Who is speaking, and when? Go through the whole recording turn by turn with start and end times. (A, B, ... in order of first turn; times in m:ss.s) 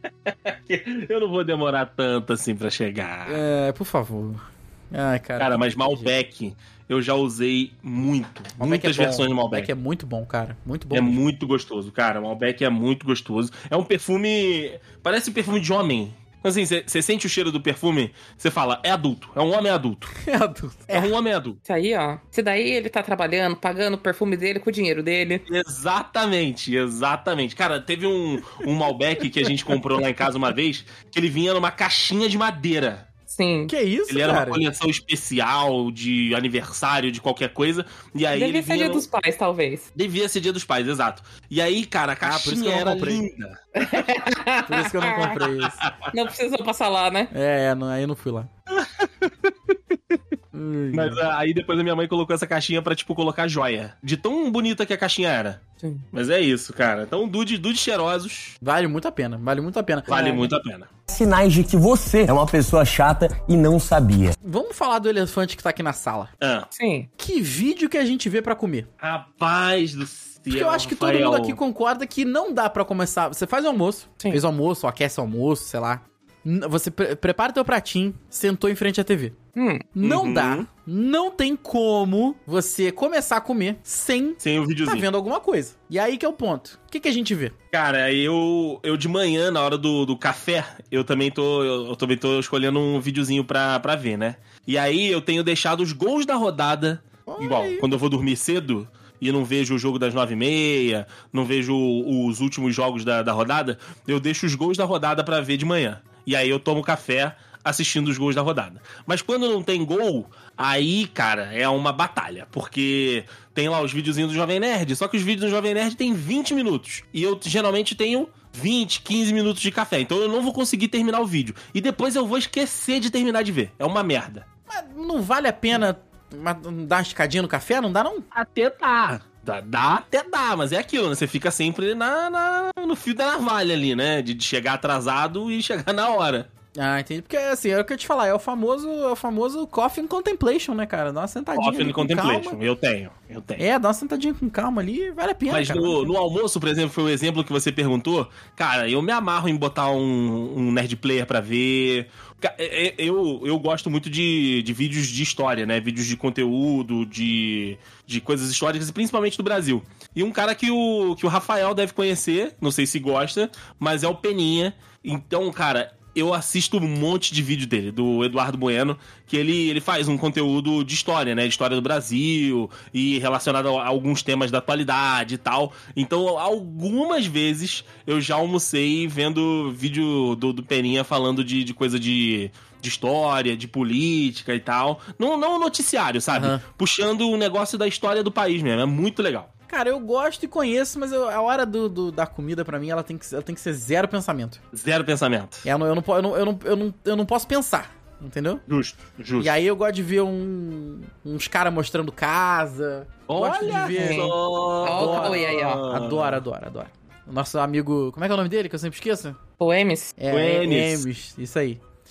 0:00.3-0:03.4 A
0:03.3-0:06.1 B
0:05.4-0:09.7 A
0:08.6-0:11.2 B
0:10.9-0:20.1 A
0:20.2-0:21.1 B
0:20.9-0:21.6 A
0:21.6-0:25.4 C
0:25.5-0:33.1 A
0:33.3-0:33.7 C
0:33.7-0:34.6 B
0:34.1-0:39.0 A
0:38.3-0:39.8 C
0:40.0-0:44.1 A
0:42.2-0:43.2 B
0:43.8-0:45.4 C
0:44.6-0:45.8 B
0:45.6-0:45.9 A
0:46.1-0:47.3 C
0:47.3-0:48.5 B
0:48.7-0:49.7 A
0:50.5-0:51.2 B
0:50.9-0:55.6 A
0:56.1-0:58.6 A
0:58.6-1:00.2 B
1:00.1-1:00.9 A
1:00.1-1:00.4 C
1:01.1-1:04.4 D
1:04.4-1:06.3 B
1:06.4-1:06.7 A
1:06.8-1:07.1 C
1:07.2-1:08.9 B
1:09.0-1:11.6 A
1:10.5-1:19.3 B
1:19.6-1:19.8 C
1:19.9-1:27.5 B
1:20.0-1:20.7 A
1:24.4-1:25.1 A
1:27.7-2:04.4 A
1:37.3-1:37.9 B
2:04.7-2:08.2 B
2:08.3-2:16.5 A
2:16.8-2:22.6 B
2:21.6-2:23.6 A
2:23.6-2:26.1 B
2:25.5-3:09.5 A
3:06.3-3:06.6 B
3:09.7-3:14.6 B
3:14.7-3:15.6 A
3:15.6-3:18.6 B
3:18.7-3:19.6 A
3:19.4-3:29.4 B
3:23.3-3:26.4 A
3:23.9-3:25.8 C
3:29.6-3:30.2 C
3:30.2-3:31.8 B
3:30.3-3:31.0 A